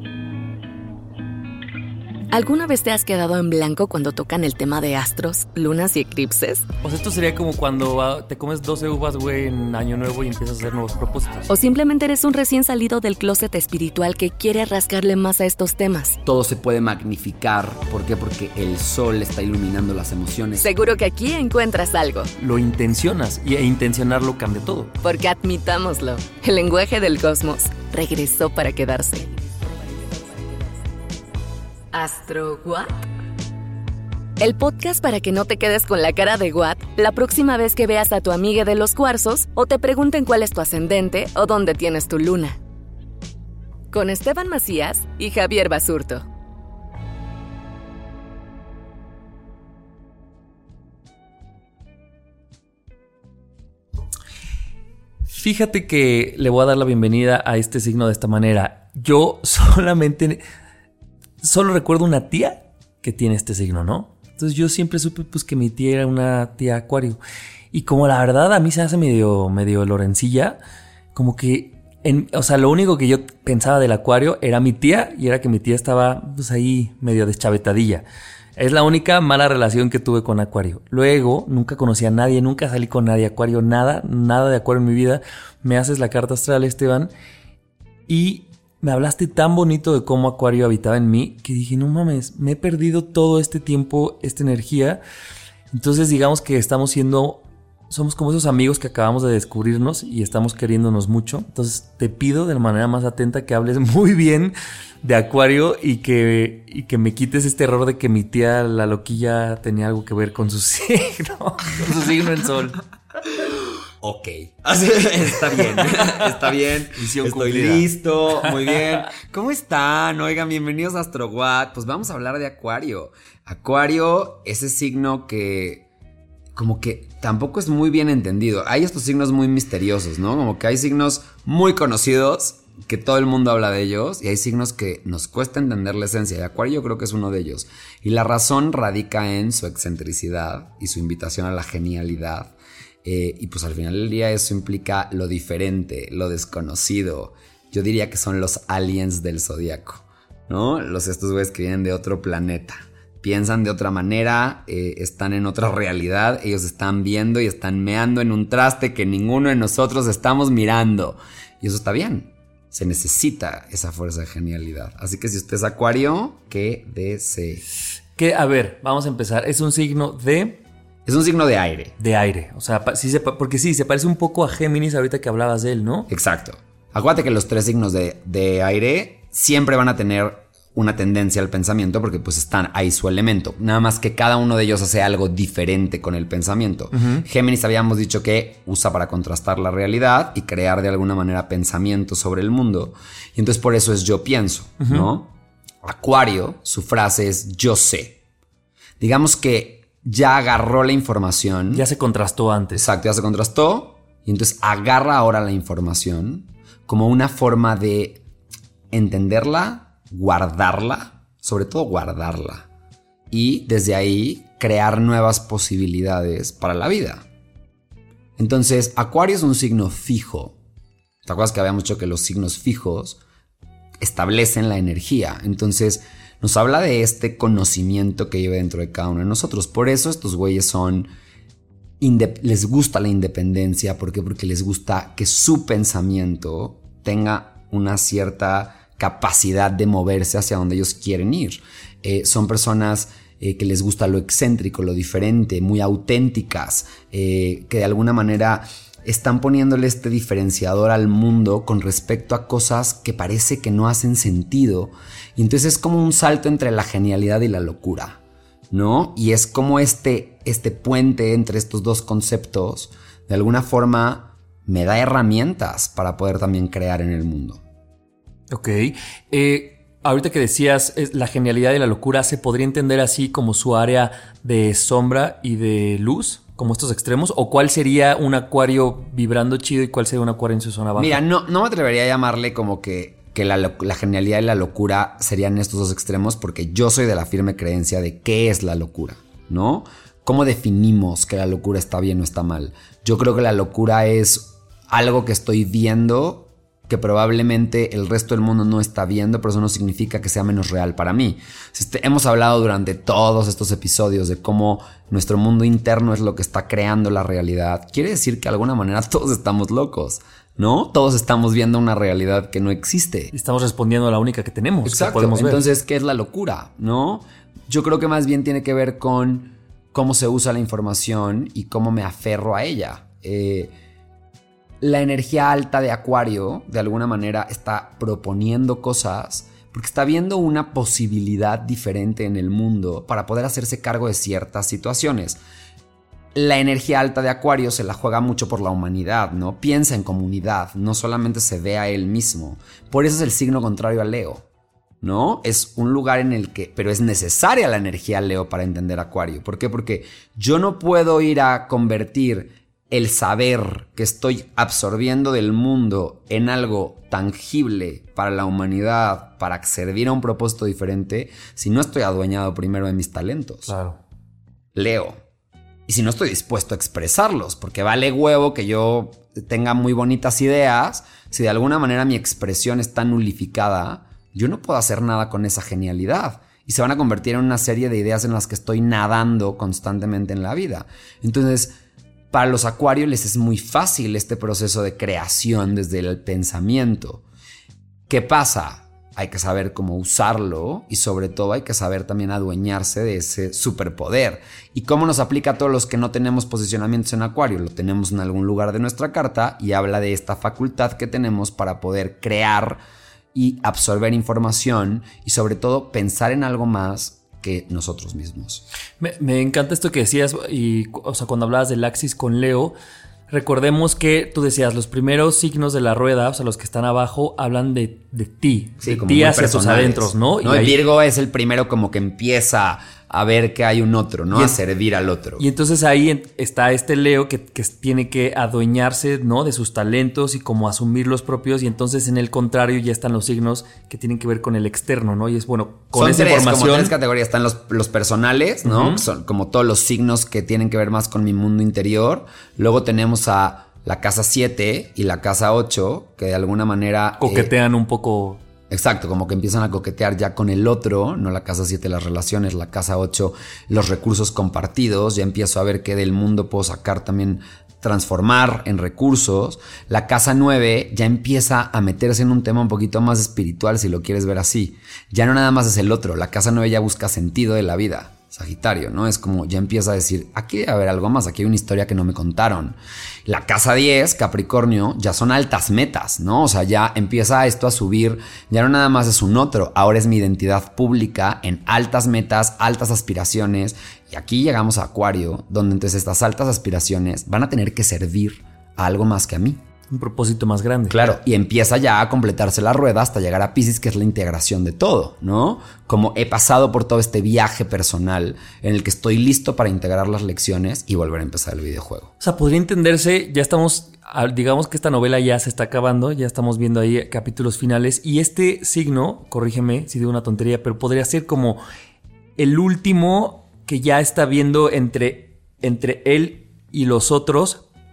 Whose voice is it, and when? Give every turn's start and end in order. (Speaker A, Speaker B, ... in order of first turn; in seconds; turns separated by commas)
Speaker A: 2.3-6.7, Speaker B: 6.8-11.5, Speaker A: 11.5-16.2, Speaker C: 16.2-20.7, Speaker A: 20.6-22.3, Speaker B: 22.4-24.9, Speaker A: 25.0-29.4, Speaker A: 31.9-33.1, Speaker A: 34.4-42.6, Speaker A: 43.9-46.2, Speaker B: 55.4-60.4, Speaker B: 61.4-67.2, Speaker B: 67.7-70.6, Speaker B: 71.2-78.1, Speaker B: 78.6-87.1, Speaker B: 88.1-95.0, Speaker B: 95.7-112.8, Speaker C: 114.0-125.9, Speaker B: 117.0-118.8, Speaker C: 126.5-167.7, Speaker B: 168.2-170.6, Speaker C: 171.1-171.9, Speaker B: 172.0-176.1, Speaker C: 176.1-195.3, Speaker B: 186.9-187.2, Speaker B: 194.8-195.1, Speaker C: 195.8-198.2, Speaker C: 199.0-201.8, Speaker B: 201.7-202.8, Speaker C: 202.8-208.2, Speaker C: 208.9-212.7, Speaker C: 213.3-217.3, Speaker C: 218.4-220.6, Speaker C: 221.2-223.2, Speaker C: 224.0-231.1, Speaker C: 232.0-258.2, Speaker C: 258.7-267.6, Speaker B: 268.5-281.2, Speaker C: 281.0-313.3, Speaker B: 313.3-315.6, Speaker C: 314.9-323.7, Speaker C: 324.8-335.4, Speaker C: 336.4-344.4, Speaker C: 345.0-363.7, Speaker B: 363.7-364.0, Speaker C: 364.8-365.2, Speaker C: 365.9-381.7, Speaker C: 382.3-387.2, Speaker C: 388.1-402.8, Speaker C: 403.3-408.6, Speaker B: 409.0-412.8, Speaker B: 413.3-420.8, Speaker C: 418.8-425.4, Speaker B: 425.4-436.9, Speaker C: 435.9-447.5, Speaker B: 438.6-439.0, Speaker B: 447.2-448.4, Speaker C: 448.7-489.6, Speaker B: 489.9-491.0, Speaker C: 490.9-502.1, Speaker B: 502.2-511.6, Speaker B: 512.4-517.6